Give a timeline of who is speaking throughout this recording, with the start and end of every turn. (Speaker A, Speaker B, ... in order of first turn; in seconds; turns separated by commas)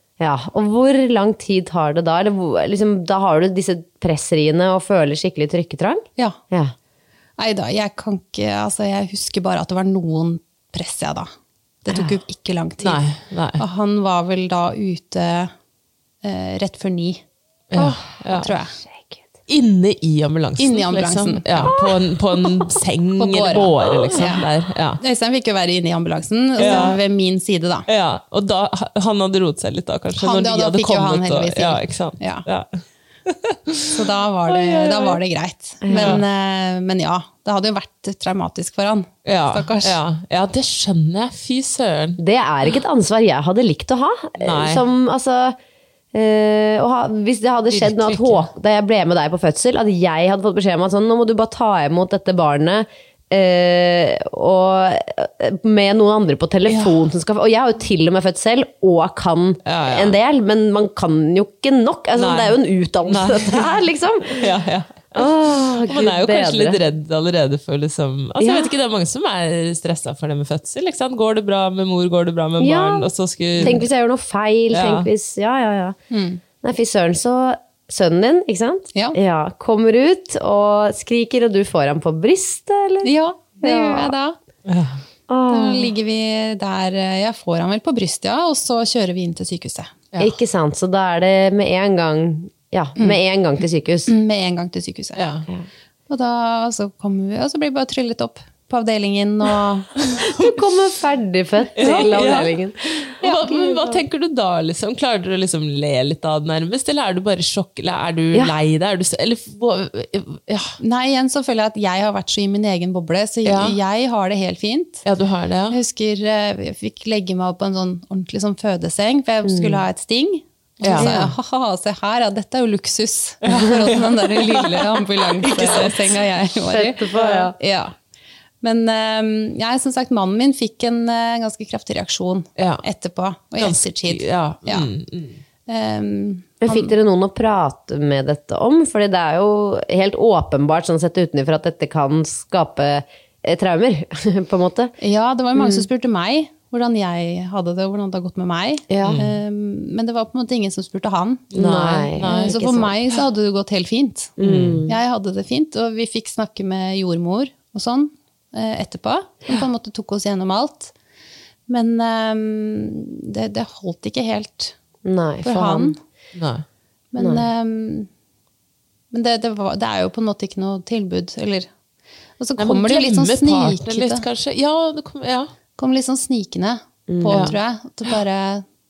Speaker A: 0.2-6.7, Speaker B: 7.4-11.3, Speaker B: 11.8-15.5, Speaker C: 12.8-13.6, Speaker B: 16.2-17.2, Speaker C: 17.7-18.5, Speaker B: 18.3-18.8, Speaker A: 18.8-19.2, Speaker C: 19.5-25.0, Speaker B: 20.6-21.7, Speaker A: 21.7-22.0, Speaker B: 23.2-24.4, Speaker A: 23.9-24.2, Speaker B: 25.0-27.9, Speaker C: 26.6-27.0, Speaker A: 26.6-26.9, Speaker C: 27.9-33.9, Speaker B: 30.2-32.5, Speaker B: 33.9-40.0, Speaker C: 34.5-35.2, Speaker A: 35.8-36.2, Speaker C: 35.9-36.2, Speaker C: 39.2-42.2, Speaker A: 42.2-45.6, Speaker C: 44.4-44.8, Speaker A: 46.1-64.5, Speaker C: 47.7-48.5, Speaker C: 56.7-57.0, Speaker C: 59.7-60.2, Speaker C: 62.2-63.7, Speaker C: 64.3-73.8, Speaker A: 65.2-66.8, Speaker A: 68.4-68.7, Speaker A: 72.6-76.0, Speaker C: 74.7-75.1, Speaker B: 76.1-76.4, Speaker A: 76.6-84.1, Speaker B: 83.0-84.4, Speaker C: 84.7-85.0, Speaker A: 85.3-85.9, Speaker B: 85.5-90.1, Speaker A: 90.2-94.1, Speaker B: 94.1-95.2, Speaker C: 95.2-95.5, Speaker B: 96.1-99.9, Speaker A: 100.3-104.0, Speaker C: 101.8-110.8, Speaker B: 101.8-102.1, Speaker B: 110.8-115.0, Speaker C: 113.5-113.8, Speaker C: 115.0-115.8, Speaker B: 115.7-127.9, Speaker A: 119.4-119.8, Speaker C: 120.8-121.1, Speaker A: 121.0-121.3, Speaker C: 123.4-126.0, Speaker A: 126.7-127.5, Speaker C: 127.2-127.5, Speaker B: 128.6-134.9, Speaker C: 132.6-132.8, Speaker C: 133.6-135.4, Speaker B: 135.7-136.9, Speaker A: 136.6-144.9, Speaker B: 145.0-151.5, Speaker A: 145.6-145.9, Speaker A: 148.9-149.2, Speaker C: 149.0-149.3, Speaker C: 151.5-152.6, Speaker A: 151.6-152.9, Speaker B: 152.2-154.3, Speaker A: 154.4-155.0, Speaker C: 154.4-154.8, Speaker B: 154.9-160.9, Speaker B: 161.7-164.8, Speaker A: 165.1-165.9, Speaker B: 165.4-166.0, Speaker C: 166.3-166.6, Speaker B: 167.1-168.1, Speaker A: 167.2-167.4, Speaker B: 169.1-171.7, Speaker B: 172.4-174.2, Speaker C: 172.6-175.5, Speaker B: 175.8-178.6, Speaker A: 177.1-177.6, Speaker C: 177.3-177.6